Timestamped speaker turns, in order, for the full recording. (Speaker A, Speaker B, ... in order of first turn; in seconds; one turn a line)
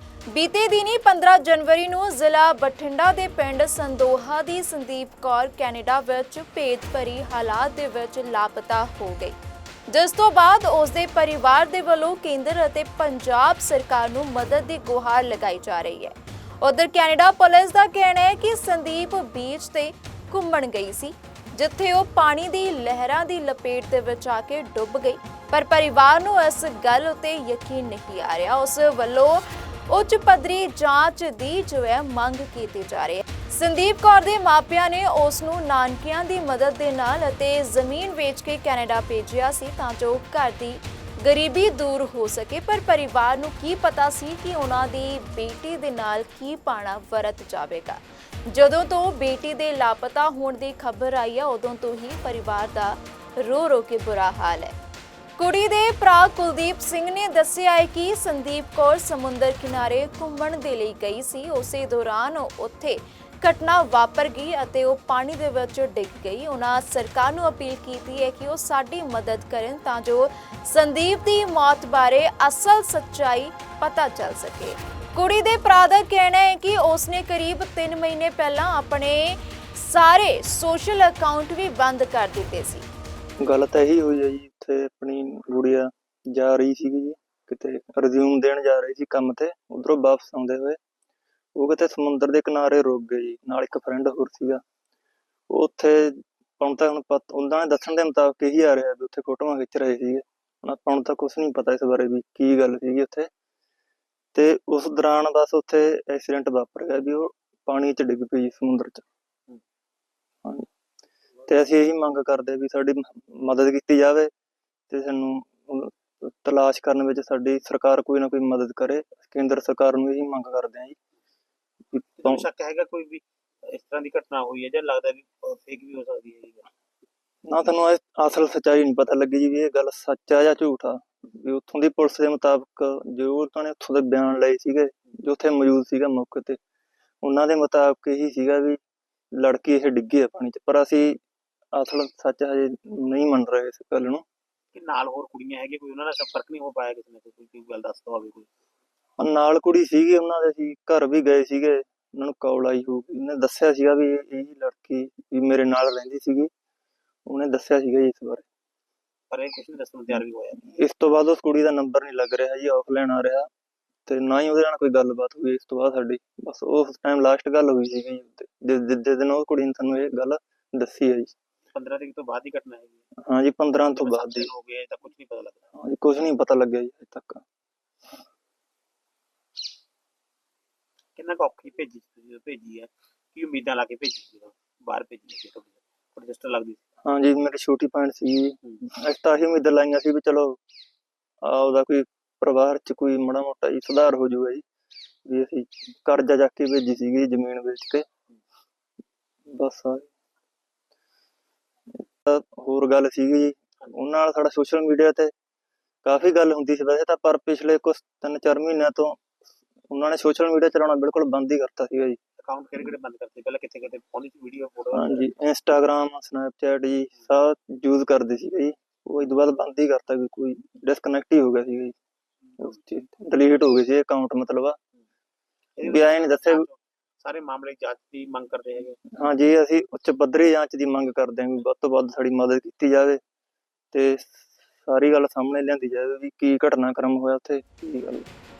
Speaker A: 0.3-9.3
Speaker A: 9.9-54.7
Speaker A: 55.4-82.9
Speaker B: 83.4-90.8
Speaker B: 91.5-94.6
Speaker B: 95.5-103.3
Speaker B: 104.3-109.0
Speaker B: 111.5-114.3
Speaker B: 114.9-121.0
Speaker B: 121.9-122.4
Speaker C: 122.2-126.7
Speaker B: 127.4-136.6
Speaker B: 137.2-138.8
Speaker B: 139.3-141.2
Speaker B: 141.7-144.2
Speaker C: 144.7-148.5
Speaker B: 149.2-156.5
Speaker B: 157.2-158.4
Speaker C: 159.3-160.7
Speaker B: 160.6-163.5
Speaker B: 164.1-171.3
Speaker C: 171.7-173.0
Speaker B: 173.2-174.5
Speaker C: 173.9-175.6
Speaker B: 175.7-177.4
Speaker C: 181.2-186.8
Speaker B: 187.0-190.6
Speaker B: 191.4-194.6
Speaker B: 195.2-198.1
Speaker B: 199.5-200.1
Speaker B: 202.2-205.3
Speaker B: 206.0-209.2
Speaker B: 209.9-212.2
Speaker C: 212.4-215.3
Speaker B: 214.9-221.9
Speaker B: 222.6-224.8
Speaker C: 225.8-229.0
Speaker B: 225.8-226.7
Speaker B: 229.1-233.2
Speaker B: 233.9-238.3